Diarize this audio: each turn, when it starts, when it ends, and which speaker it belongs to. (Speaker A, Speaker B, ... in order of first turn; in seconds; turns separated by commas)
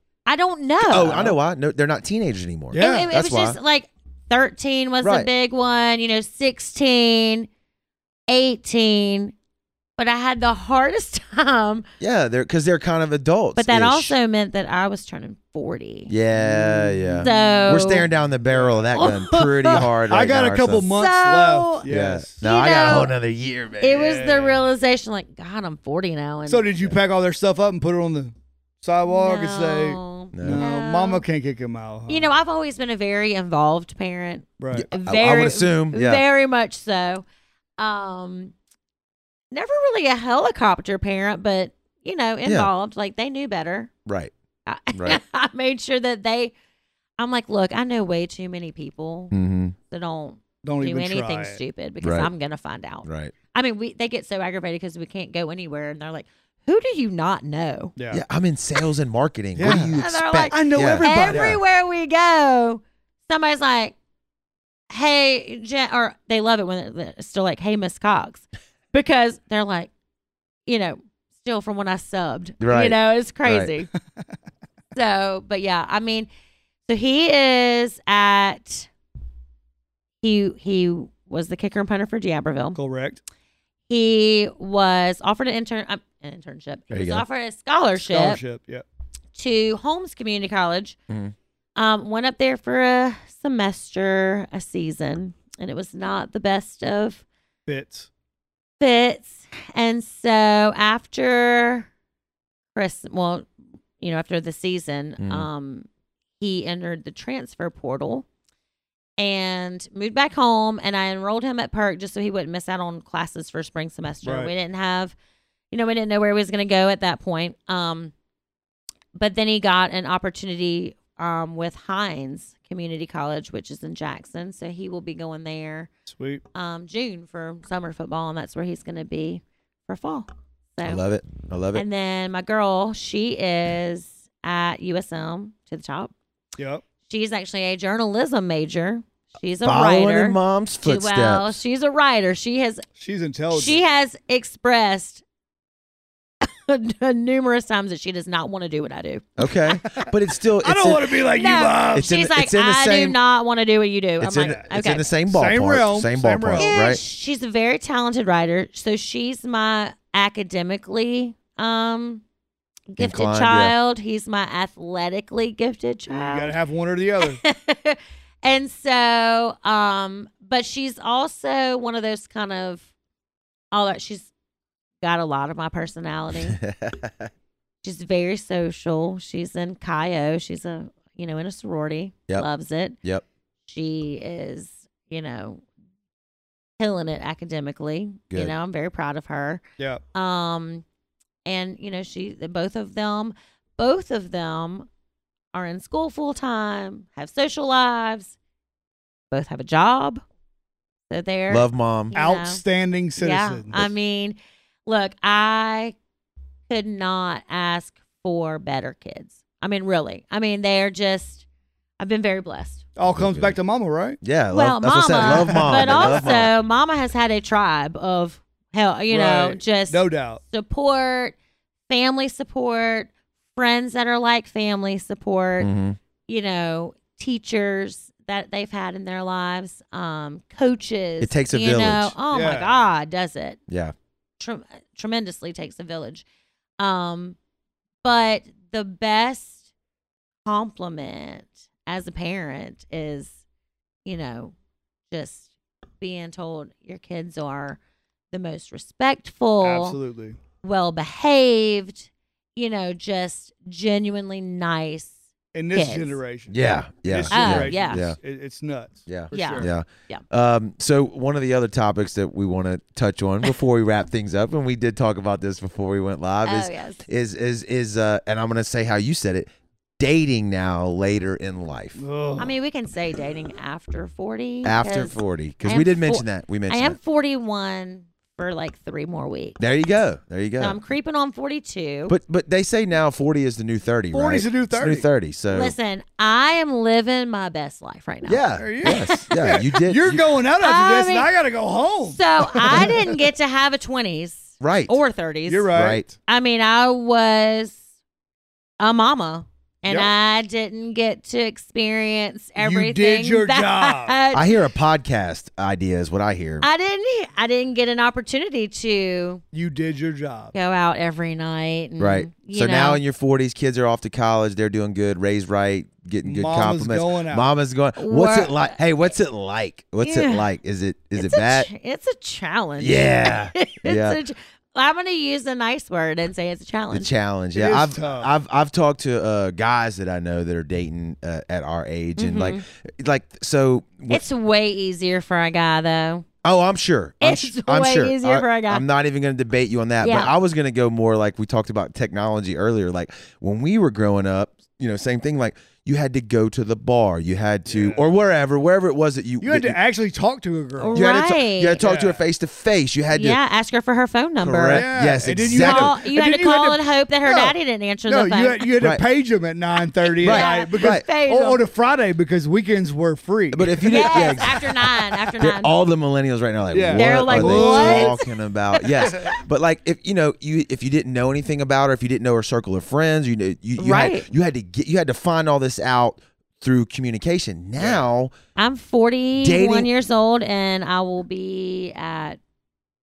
Speaker A: 0.3-1.4, Speaker B: 0.8-3.6, Speaker C: 2.7-3.1, Speaker A: 2.8-7.5, Speaker B: 5.0-5.3, Speaker A: 8.3-9.3, Speaker A: 10.0-11.9, Speaker B: 12.0-14.2, Speaker A: 13.6-16.1, Speaker B: 16.1-20.9, Speaker C: 16.4-17.8, Speaker A: 17.2-18.1, Speaker C: 18.5-18.9, Speaker A: 18.9-19.9, Speaker C: 19.8-22.4, Speaker A: 20.9-21.9, Speaker B: 21.9-24.2, Speaker A: 22.4-23.1, Speaker A: 23.8-26.7, Speaker C: 24.0-24.6, Speaker C: 26.5-32.3, Speaker A: 29.1-31.2, Speaker B: 30.3-30.6, Speaker A: 32.1-37.2, Speaker C: 34.6-34.9, Speaker B: 34.7-36.2, Speaker A: 37.8-38.5, Speaker A: 39.5-43.9, Speaker B: 42.5-42.7, Speaker B: 44.1-44.3, Speaker A: 44.7-46.5, Speaker B: 44.9-45.2, Speaker A: 47.2-49.3, Speaker B: 49.3-49.7, Speaker A: 49.9-57.9, Speaker C: 50.6-51.6, Speaker B: 52.0-52.3, Speaker B: 53.0-53.3, Speaker C: 58.0-58.2, Speaker B: 58.1-61.6, Speaker C: 59.6-61.6, Speaker A: 59.6-64.0, Speaker A: 64.9-69.9, Speaker A: 70.7-73.9, Speaker B: 72.6-73.7, Speaker A: 74.9-76.3, Speaker A: 76.9-78.9, Speaker A: 80.2-82.8, Speaker C: 82.7-83.2, Speaker A: 83.9-88.4, Speaker B: 86.9-87.2, Speaker C: 88.0-88.8, Speaker A: 89.3-91.0, Speaker B: 91.1-91.3, Speaker A: 91.8-97.2, Speaker C: 97.7-98.1, Speaker A: 98.8-101.9, Speaker A: 102.7-103.5, Speaker A: 104.0-105.9, Speaker B: 105.2-105.5, Speaker A: 106.4-108.2, Speaker A: 109.2-115.1, Speaker C: 114.2-114.5, Speaker A: 115.7-118.1, Speaker A: 119.1-125.9, Speaker C: 126.1-126.4, Speaker A: 126.5-131.0, Speaker B: 130.8-131.8, Speaker A: 131.7-136.1, Speaker C: 136.6-136.8, Speaker A: 137.1-142.9, Speaker B: 139.6-141.6, Speaker C: 143.0-143.8, Speaker A: 143.5-145.2, Speaker A: 146.4-149.3, Speaker B: 149.4-151.2, Speaker C: 150.6-152.1, Speaker A: 151.3-155.1, Speaker B: 151.9-153.2, Speaker B: 154.2-157.0, Speaker C: 154.4-154.6, Speaker C: 155.3-156.7, Speaker A: 156.6-162.2, Speaker A: 162.9-166.5, Speaker B: 163.0-163.7, Speaker C: 166.1-167.4, Speaker A: 167.2-172.9, Speaker A: 173.7-174.3, Speaker A: 175.0-176.6, Speaker B: 176.5-177.3, Speaker A: 177.8-183.0, Speaker A: 183.7-185.6, Speaker A: 186.8-189.6, Speaker A: 190.1-190.8, Speaker A: 191.4-194.9, Speaker A: 195.5-198.3, Speaker A: 199.3-200.2, Speaker A: 201.1-202.6, Speaker B: 201.5-202.1, Speaker C: 202.1-203.9, Speaker A: 203.2-205.9, Speaker A: 206.7-211.4, Speaker A: 212.0-212.8, Speaker C: 213.0-214.2, Speaker B: 213.1-213.6, Speaker B: 214.2-216.5, Speaker A: 214.5-221.3, Speaker C: 215.2-216.3, Speaker C: 219.1-220.4, Speaker A: 221.9-225.7, Speaker B: 225.6-226.0, Speaker A: 226.3-233.6, Speaker B: 231.2-232.2, Speaker C: 232.3-232.8, Speaker B: 233.7-233.9, Speaker A: 234.4-236.2, Speaker A: 236.8-237.4, Speaker A: 238.0-239.6, Speaker A: 240.4-243.4, Speaker A: 244.1-244.5, Speaker A: 245.1-245.5, Speaker A: 246.0-247.8, Speaker A: 248.3-250.0, Speaker C: 249.6-250.4, Speaker A: 250.6-255.2, Speaker C: 255.5-259.7, Speaker A: 255.7-256.2, Speaker B: 256.5-258.2, Speaker A: 257.3-258.0, Speaker B: 259.1-272.0, Speaker A: 259.3-260.2, Speaker A: 266.4-267.0, Speaker C: 272.0-272.6, Speaker A: 272.4-279.6, Speaker B: 274.6-277.0, Speaker B: 279.6-280.8, Speaker A: 280.6-282.1, Speaker B: 282.1-285.7, Speaker C: 284.1-285.1, Speaker A: 285.5-289.7, Speaker B: 288.2-290.2, Speaker C: 288.6-293.2, Speaker A: 290.6-291.3, Speaker A: 292.1-297.8, Speaker B: 294.6-295.0, Speaker C: 295.5-296.0, Speaker B: 295.7-296.1, Speaker A: 298.8-304.5, Speaker C: 302.6-304.2, Speaker B: 304.3-306.7, Speaker A: 306.6-309.4, Speaker C: 309.5-310.5, Speaker A: 310.5-313.0, Speaker B: 312.0-321.7, Speaker C: 316.2-317.5, Speaker A: 317.9-318.8, Speaker A: 320.0-320.5, Speaker A: 321.1-327.1, Speaker B: 322.8-324.2, Speaker B: 326.9-334.3, Speaker C: 327.5-328.3, Speaker A: 332.2-332.6, Speaker A: 334.1-336.2, Speaker B: 336.4-349.8, Speaker A: 337.2-338.8, Speaker A: 340.0-340.3, Speaker C: 347.7-348.0, Speaker C: 349.4-351.0, Speaker A: 350.8-351.8, Speaker B: 350.9-353.4, Speaker C: 351.8-352.2, Speaker A: 353.1-354.9, Speaker B: 354.4-355.9, Speaker C: 354.7-357.6, Speaker A: 355.5-358.6, Speaker C: 358.1-364.4, Speaker A: 360.2-361.6, Speaker B: 360.2-361.1, Speaker B: 363.5-378.3, Speaker A: 363.9-365.7, Speaker C: 366.7-368.2, Speaker A: 366.9-368.2, Speaker A: 368.8-369.2, Speaker A: 373.8-374.3, Speaker C: 377.8-378.1, Speaker A: 378.6-382.4, Speaker B: 379.4-379.9